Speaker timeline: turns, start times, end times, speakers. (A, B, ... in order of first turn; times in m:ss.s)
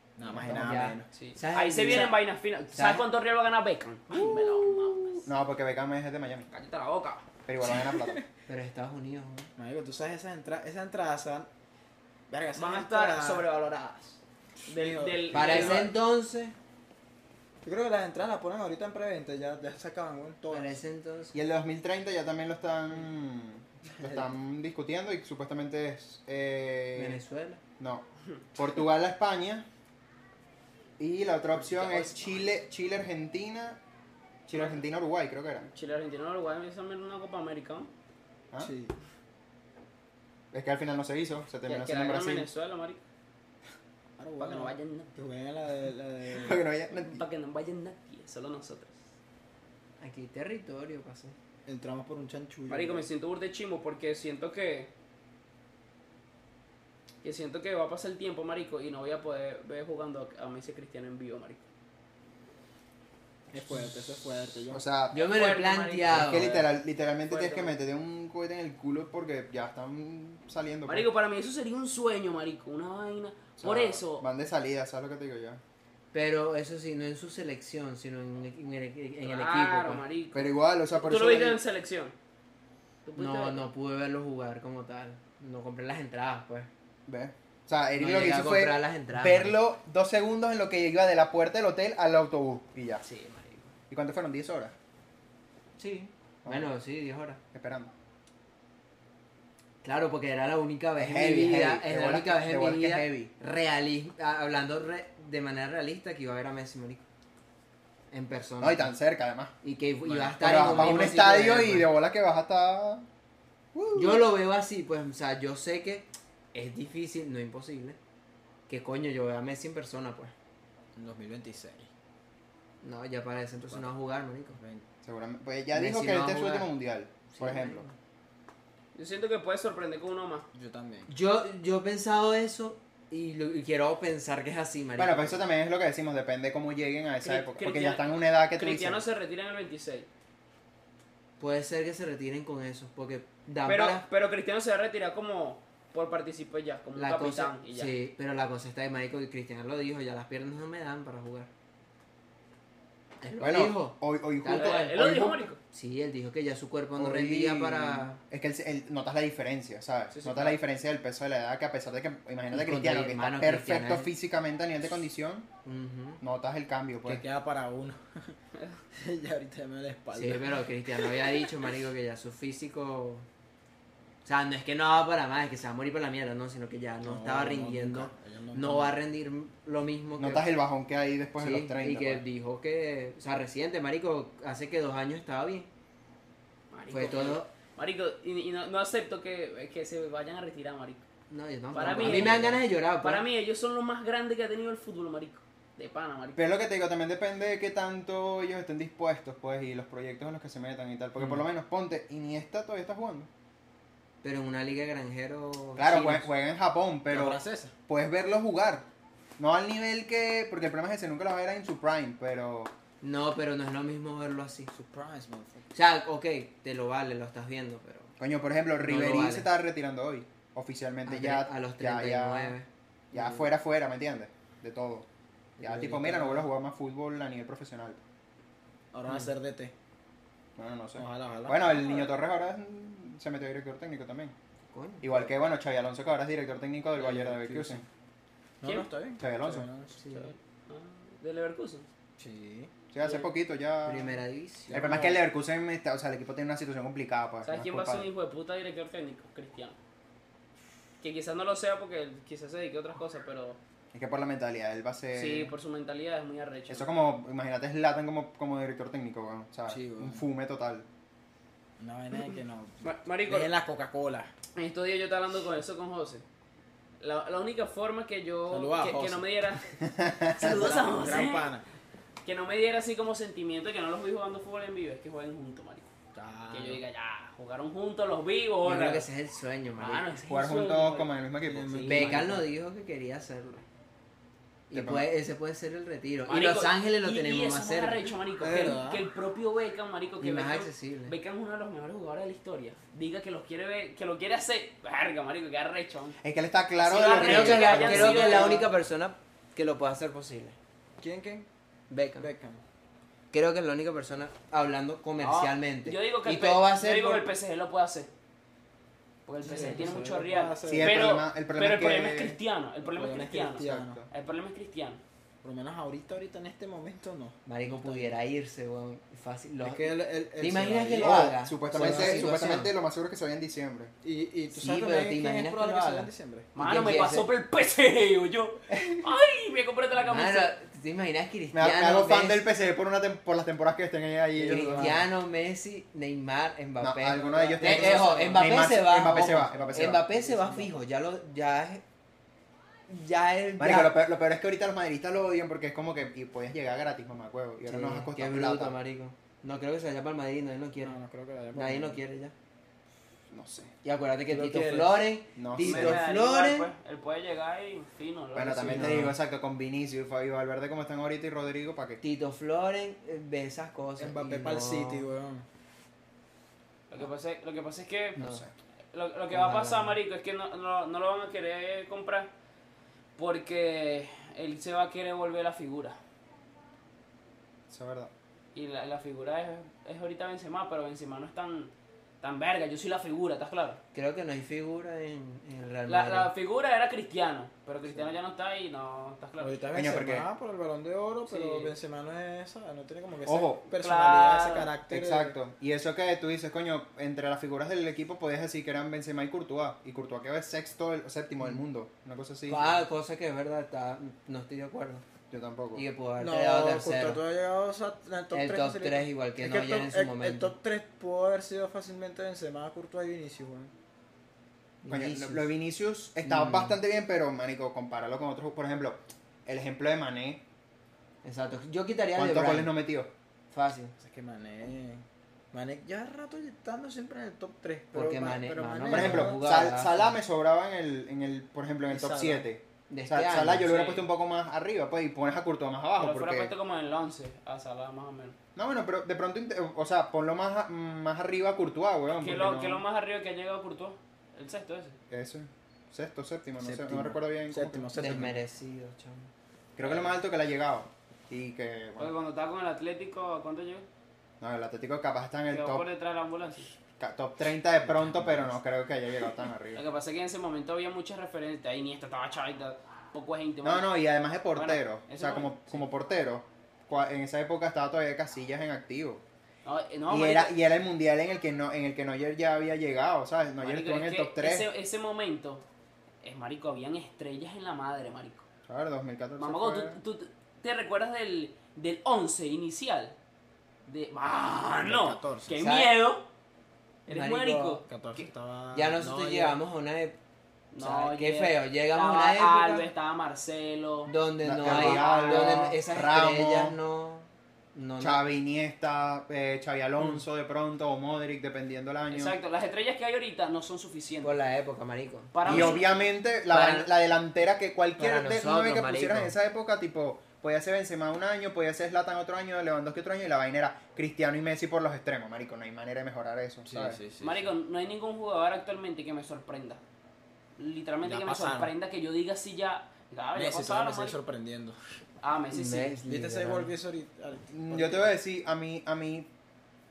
0:00.2-0:01.0 A
0:00.2-0:01.0 B
0:00.4-0:03.0 C
0:01.1-0:05.3 D
0:04.1-0:06.5 B
0:06.5-0:07.2 D
0:07.4-0:08.2 B
0:07.6-0:08.2 A
0:08.5-0:09.5 C
0:09.6-0:11.5 A
0:12.3-0:13.4 A
0:12.6-0:15.9 D
0:14.6-0:15.9 A
0:15.3-0:16.5 C
0:17.6-0:20.8 A
0:20.5-0:21.4 C
0:21.3-0:27.2 B
0:24.0-0:24.3 A
0:26.9-0:27.6 C
0:27.8-0:28.0 B
0:28.5-0:29.7 B
0:31.0-0:33.8 B
0:31.5-0:32.6 D
0:34.5-0:35.7 B
0:34.5-0:34.8 D
0:35.7-0:37.9 D
0:38.6-0:38.9 A
0:40.5-0:42.5 B
0:41.6-0:43.0 D
0:44.2-0:46.6 A
0:44.4-0:45.1 D
0:46.3-0:47.2 B
0:46.9-0:49.0 D
0:50.0-0:51.3 C
0:51.6-0:53.1 A
0:52.7-0:54.9 D
0:57.2-1:01.6 D
1:03.5-1:04.8 A
1:04.7-1:05.1 B
1:05.1-1:06.4 D
1:05.1-1:06.6 C
1:06.1-1:11.1 B
1:07.3-1:07.7 D
1:10.8-1:14.2 D
1:13.6-1:15.6 B
1:16.1-1:20.0 C
1:19.2-1:22.1 D
1:20.3-1:21.6 B
1:23.0-1:23.6 D
1:23.2-1:26.7 C
1:27.1-1:33.0 B
1:27.9-1:29.6 C
1:33.0-1:33.6 D
1:33.9-1:34.7 B
1:35.8-1:37.4 C
1:36.4-1:36.7 B
1:37.5-1:37.9 B
1:39.8-1:47.0 C
1:41.0-1:43.3 B
1:48.1-1:48.9 C
1:48.6-1:49.5 B
1:49.6-1:51.9 C
1:50.0-1:51.0 A
1:50.4-1:53.0 B
1:53.7-1:54.2 B
1:53.9-1:58.0 C
1:58.7-2:00.3 C
2:01.0-2:01.9 A
2:02.8-2:04.6 C
2:04.5-2:04.8 A
2:05.0-2:07.8 B
2:05.7-2:06.7 C
2:07.3-2:07.9 C
2:08.9-2:10.5 D
2:10.5-2:11.1 A
2:11.1-2:15.4 C
2:15.0-2:19.0 B
2:17.2-2:20.1 D
2:21.4-2:24.0 C
2:23.6-2:27.9 D
2:27.0-2:31.5 C
2:33.2-2:35.0 C
2:33.4-2:35.4 B
2:34.5-2:35.6 D
2:35.7-2:38.2 C
2:37.0-2:45.5 B
2:40.1-2:40.6 D
2:42.5-2:44.1 C
2:45.6-2:46.2 C
2:46.2-2:47.2 B
2:47.0-2:48.4 A
2:48.9-2:50.6 A
2:50.1-2:53.2 C
2:54.2-3:00.5 C
2:57.0-2:59.0 A
3:00.2-3:02.2 B
3:01.4-3:05.7 C
3:06.7-3:11.0 D
3:06.9-3:07.5 C
3:11.3-3:13.2 C
3:11.7-3:16.4 D
3:11.8-3:12.5 A
3:12.1-3:12.5 B
3:16.4-3:23.3 B
3:24.2-3:26.3 C
3:25.8-3:28.8 B
3:27.1-3:27.7 A
3:29.4-3:32.7 B
3:33.0-3:34.7 C
3:34.7-3:35.6 A
3:35.7-3:38.1 C
3:38.2-3:42.6 B
3:38.8-3:39.5 C
3:41.0-3:43.5 C
3:43.1-3:45.0 B
3:45.6-3:46.4 A
3:45.6-3:48.0 B
3:48.9-3:49.7 A
3:50.6-3:54.3 B
3:51.0-3:52.1 A
3:54.7-3:55.0 C
3:55.0-3:57.8 B
3:57.0-3:57.8 A
3:58.6-4:00.0 A
3:58.6-3:58.9 D
3:59.2-3:59.7 B
4:00.0-4:00.3 C
4:00.1-4:01.9 D
4:02.2-4:02.7 A
4:02.9-4:08.1 B
4:03.0-4:03.3 D
4:03.8-4:04.9 C
4:04.7-4:05.2 A
4:07.4-4:09.8 D
4:11.0-4:13.6 D
4:13.9-4:15.5 B
4:15.1-4:16.9 D
4:16.7-4:20.8 B
4:19.7-4:20.2 A
4:21.8-4:24.3 A
4:22.8-4:23.5 D
4:24.5-4:26.2 D
4:27.0-4:29.8 D
4:28.5-4:29.3 A
4:29.8-4:30.7 B
4:30.3-4:31.5 D
4:30.4-4:31.6 A
4:32.2-4:35.9 D
4:36.1-4:36.8 A
4:36.5-4:39.1 D
4:38.6-4:40.1 C
4:39.8-4:41.1 D
4:40.3-4:41.9 B
4:41.4-4:42.5 A
4:41.7-4:42.2 D
4:41.8-4:43.6 C
4:44.7-4:48.1 C
4:44.7-4:45.1 B
4:46.3-4:56.2 D
4:48.4-4:49.0 A
4:50.2-4:51.1 C
4:56.2-4:58.6 B
4:56.8-4:58.7 D
4:57.1-5:00.6 C
5:01.0-5:01.5 A
5:01.9-5:02.3 C
5:02.2-5:02.6 A
5:03.3-5:07.3 C
5:05.2-5:08.1 D
5:09.2-5:15.0 D
5:09.4-5:11.1 A
5:09.4-5:09.9 C
5:10.7-5:12.4 B
5:12.8-5:14.0 A
5:13.6-5:14.1 B
5:15.4-5:18.2 A
5:17.4-5:22.7 C
5:19.6-5:22.4 A
5:21.0-5:23.9 B
5:24.0-5:26.5 A
5:24.5-5:27.3 C
5:26.5-5:30.5 D
5:30.1-5:32.5 C
5:31.5-5:35.0 B
5:34.4-5:35.1 A
5:34.4-5:41.8 C
5:36.8-5:40.0 B
5:37.2-5:38.4 A
5:37.6-5:38.5 D
5:39.2-5:40.8 A
5:42.9-5:44.0 C
5:43.6-5:48.7 B
5:47.6-5:50.9 C
5:50.8-5:52.0 A
5:51.5-5:52.3 C
5:53.3-5:53.7 B
5:53.8-5:56.7 C
5:54.3-5:55.1 A
5:55.4-5:56.0 B
5:55.6-5:59.1 D
5:58.3-6:02.0 B
5:58.7-5:59.2 C
6:02.0-6:05.1 C
6:04.0-6:05.4 A
6:06.9-6:08.2 D
6:08.2-6:08.4 C
6:08.2-6:08.5 B
6:08.9-6:12.3 D
6:09.3-6:10.0 C
6:13.2-6:16.0 D
6:17.7-6:18.1 B
6:18.5-6:23.8 D
6:23.9-6:26.3 C
6:25.9-6:29.6 D
6:29.4-6:35.3 A
6:29.7-6:30.3 B
6:31.3-6:31.7 D
6:33.2-6:33.6 B
6:33.8-6:34.7 D
6:34.9-6:42.7 B
6:42.5-6:45.0 C
6:45.3-6:45.8 B
6:45.7-6:47.2 C
6:46.2-6:53.7 A
6:48.3-6:50.5 C
6:54.8-6:55.5 C
6:54.9-7:00.4 B
6:56.2-6:56.8 C
7:01.2-7:02.8 C
7:02.2-7:03.1 B
7:03.5-7:03.9 C
7:04.0-7:09.4 A
7:07.9-7:10.2 C
7:08.9-7:16.5 B
7:11.9-7:12.4 A
7:12.9-7:13.7 C
7:13.6-7:14.0 D
7:16.0-7:18.4 D
7:18.5-7:22.8 B
7:22.2-7:25.0 D
7:25.1-7:27.9 B
7:26.6-7:28.4 A
7:28.0-7:29.3 C
7:29.8-7:32.1 B
7:29.8-7:30.2 D
7:32.0-7:33.8 D
7:34.4-7:35.8 B
7:35.5-7:36.7 D
7:37.0-7:39.8 B
7:39.7-7:43.9 D
7:43.6-7:49.2 B
7:44.5-7:45.8 D
7:49.6-7:50.5 D
7:50.1-7:54.7 B
7:53.6-7:55.6 D
7:56.2-7:58.4 D
7:58.7-8:00.0 B
7:59.4-8:03.2 D
8:03.8-8:06.2 D
8:04.8-8:05.5 A
8:05.6-8:05.9 C
8:07.1-8:08.2 D
8:07.1-8:07.8 C
8:07.9-8:09.6 A
8:08.7-8:10.2 C
8:10.7-8:15.7 D
8:10.8-8:12.9 C
8:14.1-8:18.2 C
8:14.4-8:16.7 B
8:18.0-8:22.4 B
8:22.1-8:24.4 D
8:24.2-8:25.8 C
8:25.3-8:26.0 D
8:25.4-8:37.0 B
8:26.5-8:26.9 C
8:28.0-8:29.3 C
8:36.7-8:37.5 A
8:37.2-8:39.8 D
8:40.6-8:44.2 D
8:41.0-8:41.7 A
8:43.3-8:44.8 A
8:45.2-8:46.0 D
8:45.5-8:46.7 C
8:46.0-8:48.1 A
8:47.5-8:49.3 B